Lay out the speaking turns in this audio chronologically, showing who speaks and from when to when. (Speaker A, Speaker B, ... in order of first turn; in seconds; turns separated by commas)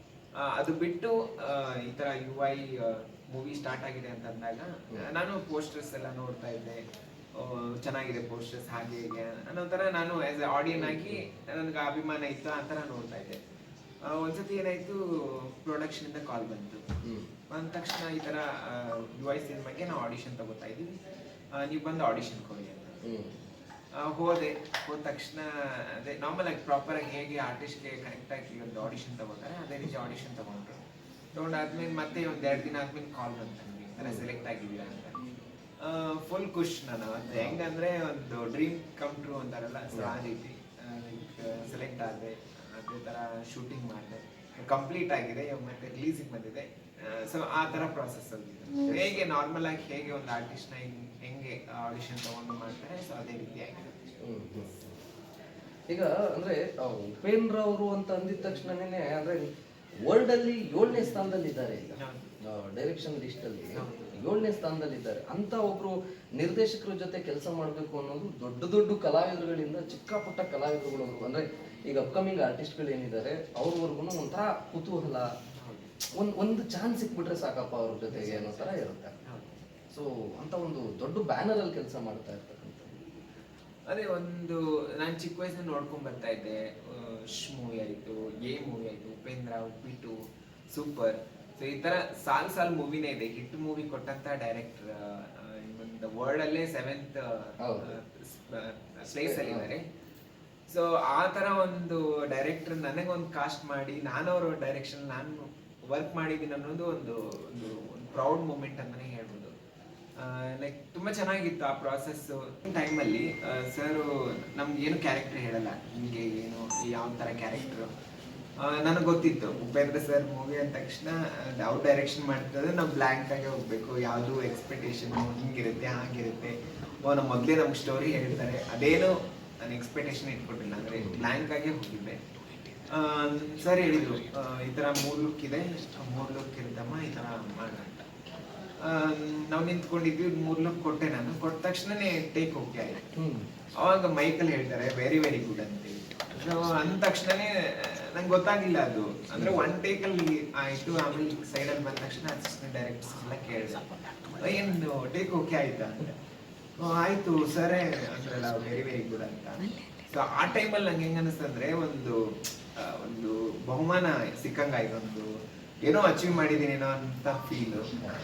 Speaker A: 0.4-6.8, Speaker A: 7.3-13.4, Speaker B: 10.8-11.2, Speaker A: 14.0-16.9, Speaker B: 17.0-17.3, Speaker A: 17.5-21.0, Speaker A: 21.5-23.0, Speaker B: 23.0-23.4, Speaker A: 23.9-30.8, Speaker A: 31.3-35.2, Speaker A: 35.8-54.7, Speaker B: 39.9-40.2, Speaker B: 54.2-55.0, Speaker B: 55.9-75.3, Speaker A: 60.9-61.2, Speaker A: 62.0-62.3, Speaker A: 63.7-64.2, Speaker A: 75.5-75.9, Speaker B: 76.1-79.2, Speaker A: 78.1-78.7, Speaker A: 79.2-79.6, Speaker B: 79.9-83.1, Speaker A: 83.9-90.2, Speaker A: 90.7-99.8, Speaker B: 97.6-97.9, Speaker B: 99.2-99.7, Speaker A: 100.7-109.5, Speaker A: 110.2-117.9, Speaker A: 118.6-132.2, Speaker A: 132.9-138.1, Speaker A: 138.8-143.1, Speaker B: 143.2-143.5, Speaker A: 143.8-156.2, Speaker A: 156.8-165.3, Speaker A: 165.8-168.0